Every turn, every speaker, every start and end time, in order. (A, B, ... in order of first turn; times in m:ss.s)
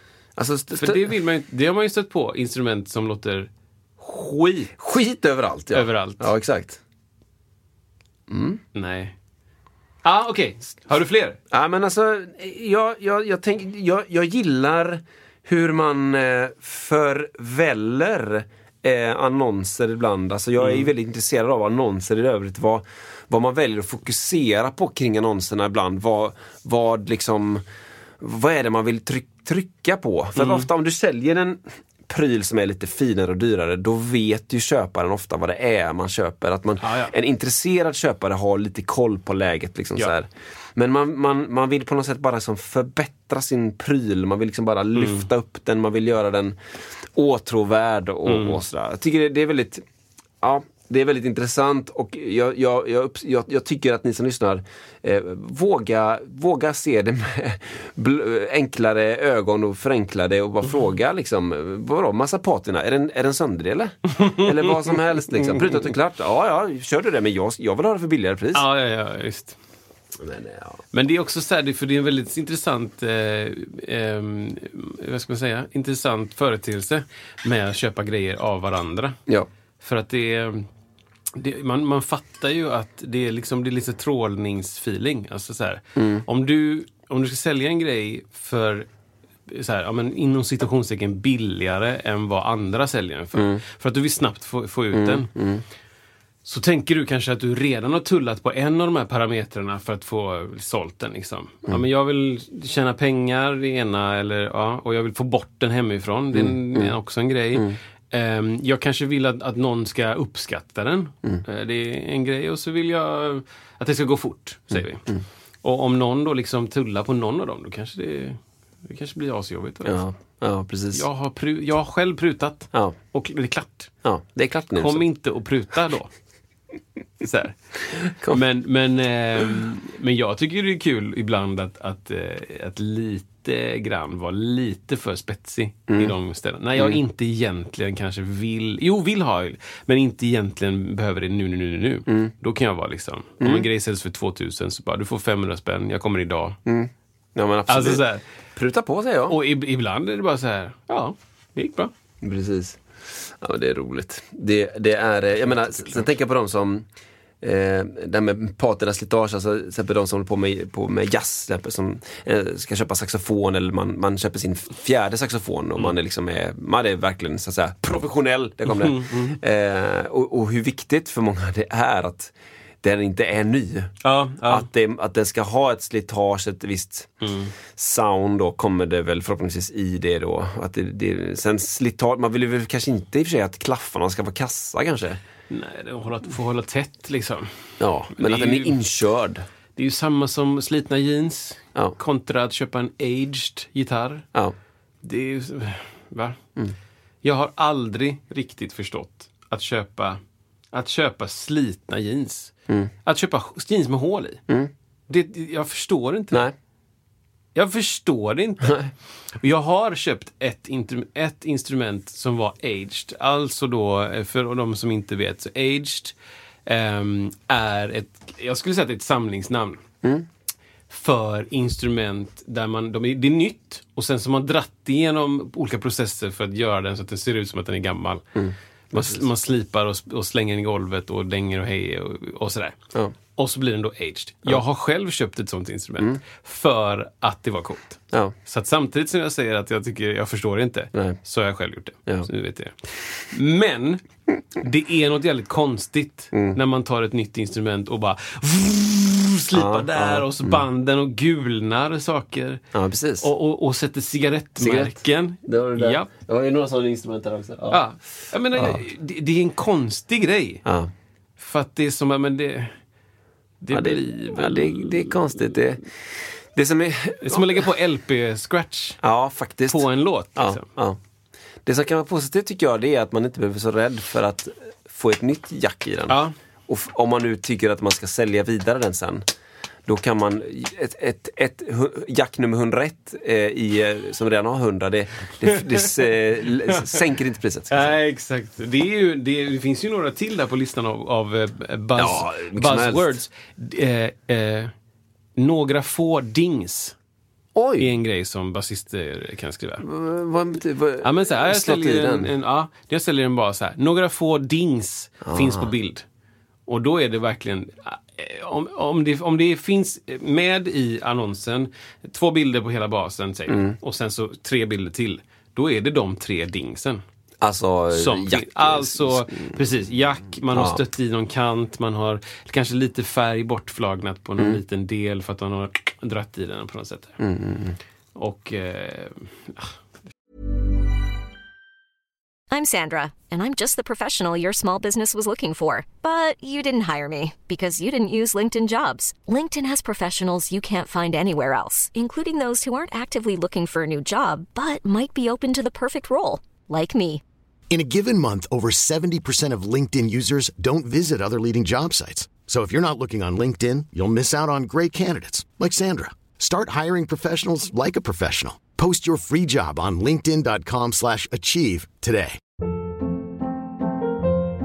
0:00.4-0:01.0 A
0:00.8-0:04.7 B
0:04.8-0:06.8 A
0:05.7-0:06.3 B
0:08.3-0:08.6 A
0:08.7-0:09.1 B
0:10.0-0:11.4 B
0:11.5-0:27.6 A
0:20.6-0:20.9 B
0:28.2-0:46.6 A
0:30.4-0:30.7 B
0:36.8-0:37.1 B
0:44.9-0:45.3 B
0:47.1-0:49.8 A
0:48.2-0:48.6 B
0:50.4-1:08.6 A
1:04.9-1:05.9 B
1:08.5-1:09.6 B
1:10.2-1:10.8 A
1:10.9-1:19.2 B
1:19.8-1:20.7 B
1:21.4-1:28.9 B
1:26.0-1:26.2 A
1:29.5-1:35.3 B
1:33.4-1:33.6 A
1:34.9-1:35.6 A
1:36.4-1:55.0 B
1:46.3-1:46.9 A
1:54.7-1:55.2 A
1:55.6-2:00.0 B
1:59.8-2:01.0 A
2:00.9-2:03.9 B
2:04.0-2:05.0 A
2:04.8-2:06.1 B
2:07.2-2:07.5 B
2:08.1-2:08.4 A
2:08.3-2:26.6 B
2:23.4-2:23.7 A
2:26.6-2:28.0 A
2:27.7-2:28.2 B
2:28.6-2:29.4 A
2:29.3-2:31.9 B
2:32.2-2:36.8 A
2:35.5-2:36.1 B
2:37.4-2:53.9 A
2:48.7-2:49.4 B
2:54.0-2:54.7 B
2:54.5-2:57.1 A
2:57.2-2:57.5 B
2:57.7-3:05.2 A
3:05.5-3:07.5 B
3:07.8-3:09.4 A
3:08.1-3:08.8 B
3:09.8-3:14.2 B
3:15.0-3:16.4 B
3:17.2-3:20.2 B
3:20.7-3:22.5 B
3:23.0-3:24.4 B
3:25.1-3:26.5 B
3:27.5-3:28.8 B
3:29.4-3:36.1 B
3:36.6-3:39.8 B
3:40.9-3:48.2 B
3:48.4-3:49.2 A
3:48.9-3:52.8 B
3:53.4-4:04.0 B
4:04.6-4:12.6 B
4:06.3-4:06.6 A
4:09.5-4:10.6 A
4:12.7-4:13.3 A
4:13.2-4:16.1 B
4:14.6-4:17.8 A
4:17.7-4:20.6 B
4:20.6-4:20.9 A
4:21.4-4:22.7 B
4:23.6-4:25.5 B
4:23.7-4:25.8 A
4:26.5-4:27.6 A
4:27.2-4:29.0 B
4:29.0-4:29.8 A
4:29.7-4:30.6 B
4:30.4-4:31.0 A
4:31.6-4:39.2 A
4:36.1-4:36.3 B
4:39.9-4:47.9 A
4:46.6-4:47.0 B
4:47.7-4:54.7 B
4:52.0-4:53.1 A
4:55.4-4:56.9 B
4:57.5-4:57.9 A
4:57.8-4:59.8 B
4:59.8-5:02.3 A
5:01.0-5:06.0 B
5:05.2-5:05.7 A
5:06.7-5:17.0 B
5:13.5-5:13.8 A
5:17.4-5:19.5 A
5:17.9-5:27.2 B
5:20.5-5:20.8 A
5:27.2-5:27.8 A
5:28.1-5:29.7 B
5:32.5-5:47.2 C
5:47.7-6:02.4 D